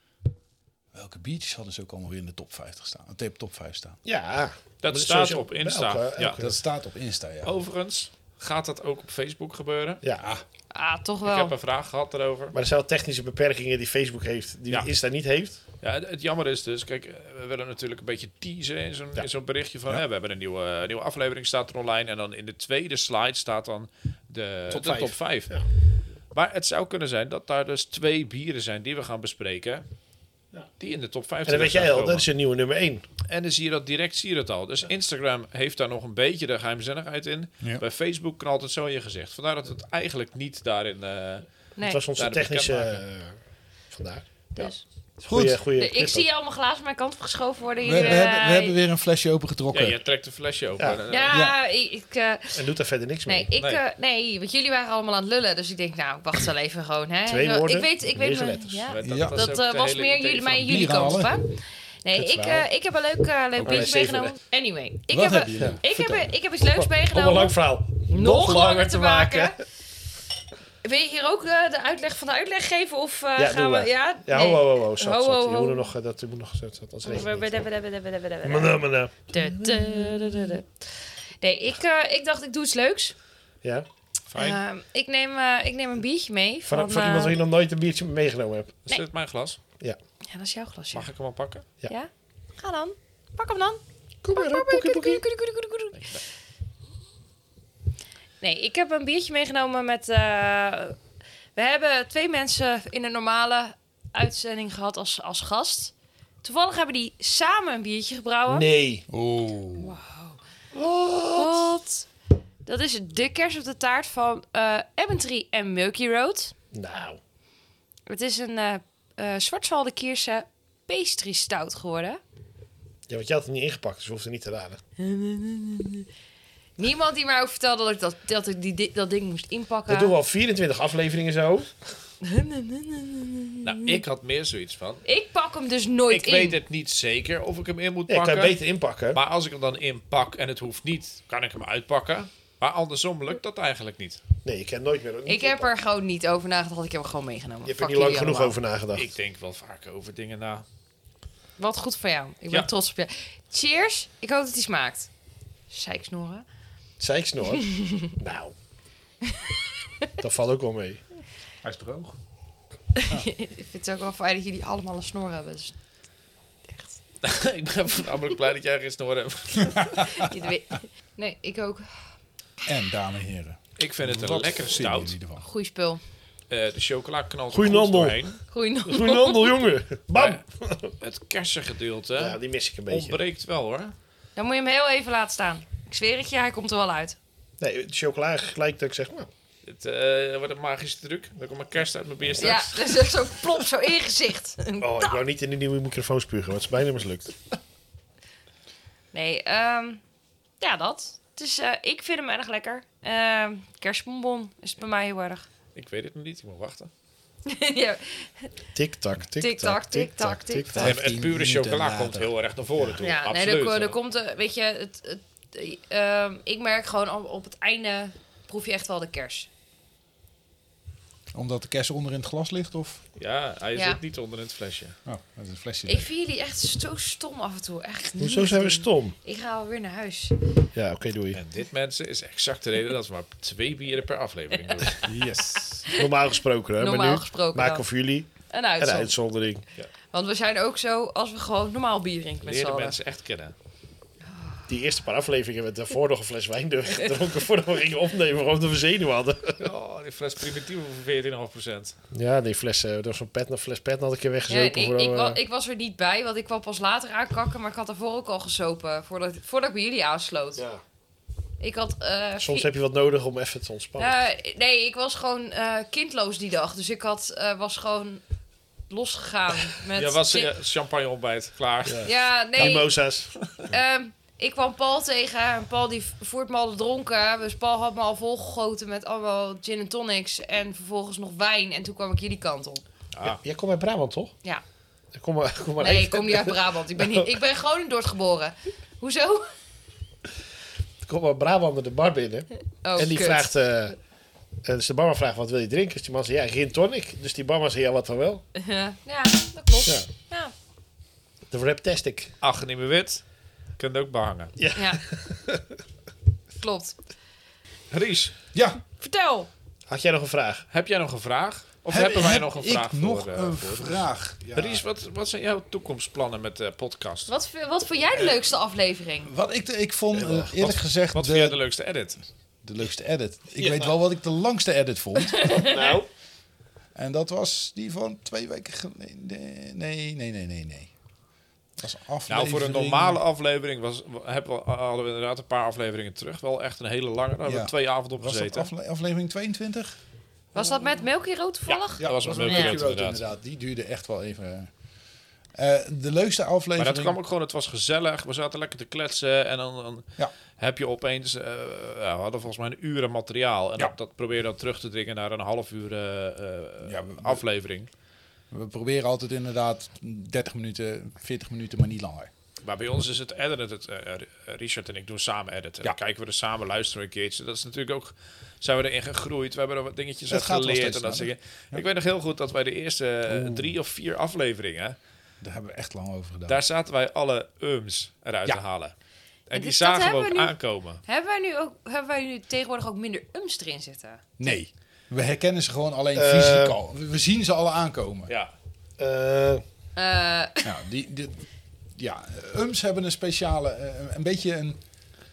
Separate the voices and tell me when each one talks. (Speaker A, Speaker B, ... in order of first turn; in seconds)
Speaker A: 0.9-4.0, 6.4-7.5, 10.2-10.4, 45.3-45.6, 47.8-50.0, 51.3-51.6, 59.0-59.4, 60.6-61.4, 62.1-62.7, 63.6-63.9, 65.1-66.3, 109.1-109.9, 161.6-162.1, 169.7-170.3, 172.6-175.4, 210.7-212.3, 221.3-223.0, 225.1-226.1, 235.0-235.8, 308.5-308.8, 311.9-314.8, 319.2-321.6, 322.6-325.6, 326.9-330.9, 331.8-333.2, 337.4-340.0, 342.0-344.7, 345.5-347.1, 356.8-357.4, 358.5-362.3, 370.3-371.8, 375.4-376.6, 384.4-388.3, 390.6-391.4, 391.9-394.8
Speaker B: 4.0-6.6, 12.5-15.6, 24.7-25.6, 31.4-33.0, 41.8-43.4, 43.9-46.2, 52.5-53.5, 57.2-58.9, 63.6-64.4, 66.7-69.6, 73.3-77.7, 78.4-80.5, 86.7-88.8, 94.2-95.2, 108.5-109.0, 110.7-111.7, 116.7-117.2, 123.1-124.8, 129.9-131.8, 138.1-139.2, 144.4-145.7, 147.6-149.1, 157.0-158.5, 160.2-161.0, 177.5-178.2, 178.8-180.9, 182.1-183.2, 187.6-189.3, 194.8-197.3, 208.7-210.8, 228.2-229.1, 230.7-231.4, 235.9-239.6, 244.7-249.7, 252.1-255.4, 260.6-260.8, 262.4-264.2, 271.8-273.3, 283.2-284.3, 285.1-287.2, 291.0-293.9, 294.6-298.4, 301.5-302.3, 304.6-305.6, 309.9-310.6, 320.1-320.5, 323.6-323.9, 325.6-326.1, 373.3-373.7, 386.1-386.8, 389.0-389.6
Speaker C: 4.8-6.4, 7.4-10.0, 11.2-12.5, 15.8-25.6, 26.3-29.8, 30.8-32.3, 33.3-41.4, 42.1-43.0, 49.7-51.3, 58.9-60.9, 84.3-84.6, 88.8-89.6, 90.9-91.7, 133.6-135.0, 136.1-138.6, 139.1-144.2, 148.9-150.6, 167.2-170.0, 173.8-175.2, 176.5-178.4, 180.1-180.4, 181.0-183.9, 189.6-193.0, 205.7-206.9, 210.7-214.0, 223.2-224.9, 231.3-235.1, 242.4-243.5, 249.6-251.9, 269.9-272.1, 283.1-283.4, 302.4-303.2, 303.8-304.5, 307.9-308.3, 310.7-317.3, 320.6-322.2, 332.3-338.7, 341.7-343.2, 346.8-357.9, 362.6-375.0, 376.5-378.9, 379.5-381.0
Speaker D: 10.7-11.5, 41.8-42.0, 44.5-44.8, 45.8-48.7, 51.1-52.6, 53.2-69.6, 70.8-75.9, 77.0-83.1, 84.4-87.4, 90.3-91.1, 91.9-93.8, 94.3-96.2, 98.4-101.0, 101.5-108.7, 109.8-110.4, 111.3-112.1, 112.7-116.5, 118.1-122.2, 125.0-126.1, 126.8-130.1, 132.2-134.0, 135.0-136.6, 145.2-148.6, 151.6-155.1, 155.7-156.4, 157.6-158.1, 159.2-160.1, 162.9-165.8, 166.7-167.0, 169.9-171.9, 175.4-176.0, 178.5-179.5, 184.3-187.2, 192.4-195.2, 199.1-200.0, 200.6-205.4, 207.4-208.5, 209.4-210.8, 213.0-219.5, 223.7-224.0, 225.8-230.4, 236.8-237.8, 238.5-239.1, 240.1-242.9, 244.3-244.7, 254.5-260.6, 261.6-262.7, 264.0-268.2, 268.9-270.5, 272.0-273.0, 273.6-282.8, 285.8-289.5, 292.8-293.5, 298.5-300.5, 304.7-305.0, 306.6-307.0, 309.0-309.5, 317.3-319.3, 325.3-326.0, 340.5-342.8, 379.5-384.5, 389.9-390.8